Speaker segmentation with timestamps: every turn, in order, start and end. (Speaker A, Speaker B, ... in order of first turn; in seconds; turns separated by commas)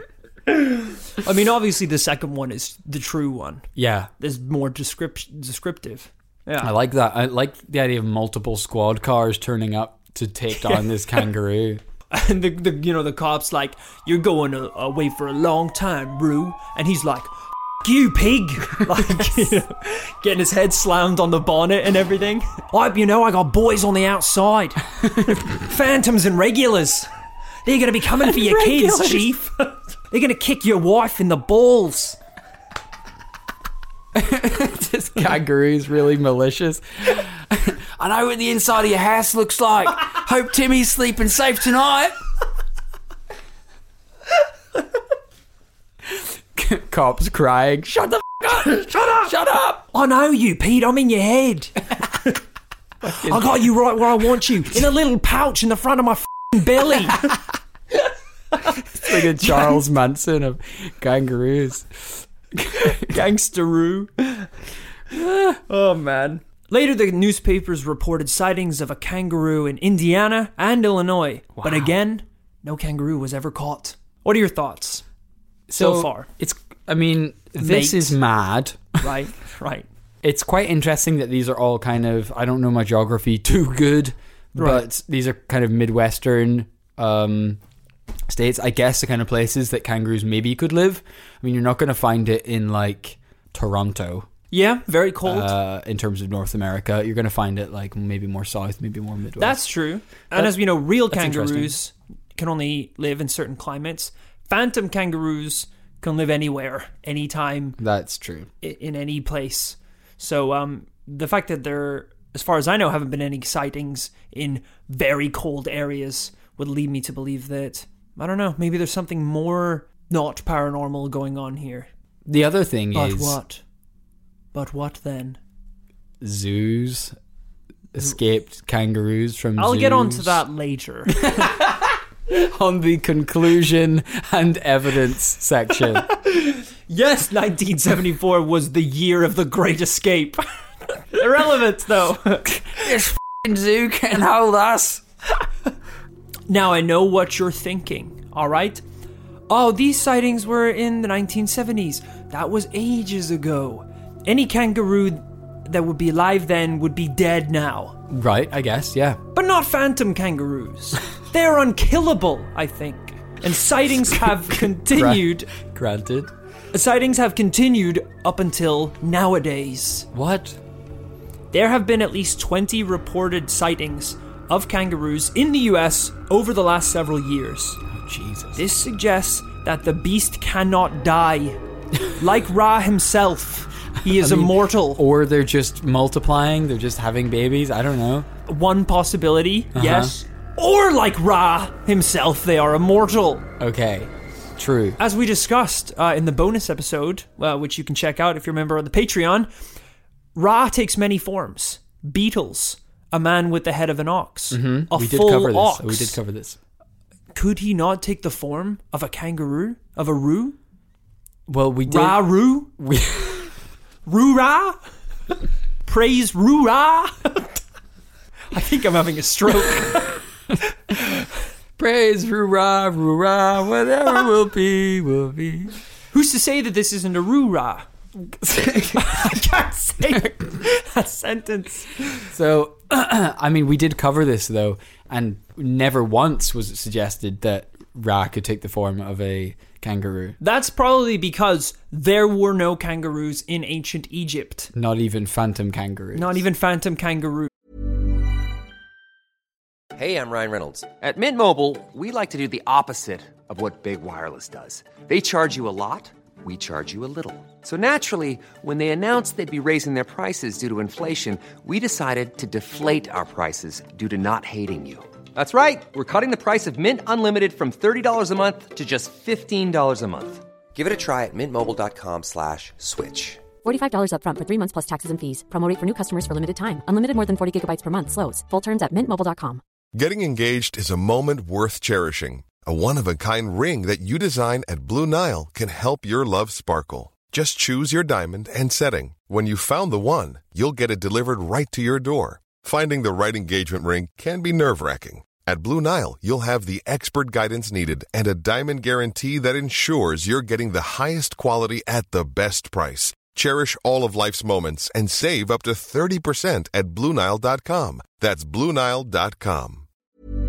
Speaker A: 0.5-3.7, Speaker B: 3.8-4.1, Speaker A: 4.2-6.7, Speaker B: 6.6-11.8, Speaker A: 12.1-27.1, Speaker A: 27.6-32.2, Speaker B: 28.2-29.4, Speaker B: 34.1-42.2, Speaker B: 46.1-49.8, Speaker A: 48.8-49.2, Speaker A: 49.9-52.4, Speaker B: 53.0-53.7, Speaker A: 53.0-57.3, Speaker B: 58.9-63.2, Speaker A: 59.0-59.8, Speaker A: 62.8-64.5, Speaker B: 65.1-65.6, Speaker A: 65.5-75.0, Speaker B: 71.6-71.9, Speaker B: 75.7-79.0, Speaker A: 75.7-76.3, Speaker A: 77.6-78.2, Speaker A: 79.0-79.9, Speaker B: 80.2-87.6, Speaker A: 84.5-84.8, Speaker B: 88.3-94.3, Speaker A: 94.5-95.5, Speaker B: 95.2-99.6, Speaker A: 99.4-107.8, Speaker B: 100.3-101.7, Speaker B: 107.8-108.5, Speaker A: 108.6-121.9, Speaker B: 122.2-123.4, Speaker A: 122.9-123.6, Speaker A: 124.5-125.4, Speaker B: 126.2-127.1, Speaker B: 127.9-130.4, Speaker A: 129.6-131.4, Speaker B: 131.1-136.1, Speaker A: 136.1-140.4, Speaker A: 140.9-142.6, Speaker B: 142.5-145.0, Speaker A: 146.5-148.8, Speaker A: 149.5-158.0, Speaker B: 158.1-159.2, Speaker A: 159.3-165.5, Speaker B: 164.8-166.3, Speaker A: 166.7-170.1, Speaker B: 170.1-170.6, Speaker A: 171.5-177.8, Speaker B: 177.9-178.6, Speaker A: 178.6-181.6, Speaker A: 182.1-185.0, Speaker B: 184.0-188.3, Speaker A: 188.4-193.4, Speaker B: 189.7-190.1, Speaker B: 193.6-195.0, Speaker A: 195.0-199.5, Speaker A: 200.3-206.2, Speaker B: 204.5-206.6, Speaker A: 207.3-210.6, Speaker B: 211.5-213.5, Speaker A: 211.9-212.7, Speaker A: 214.1-214.8, Speaker A: 215.8-217.6, Speaker A: 218.5-220.2, Speaker B: 221.8-225.8, Speaker A: 226.1-227.9, Speaker B: 228.3-229.4, Speaker A: 228.9-232.2, Speaker B: 232.3-240.4, Speaker A: 240.4-244.7, Speaker B: 244.7-246.4, Speaker A: 246.1-247.5, Speaker C: 249.9-273.4, Speaker D: 273.6-279.6, Speaker E: 279.9-309.9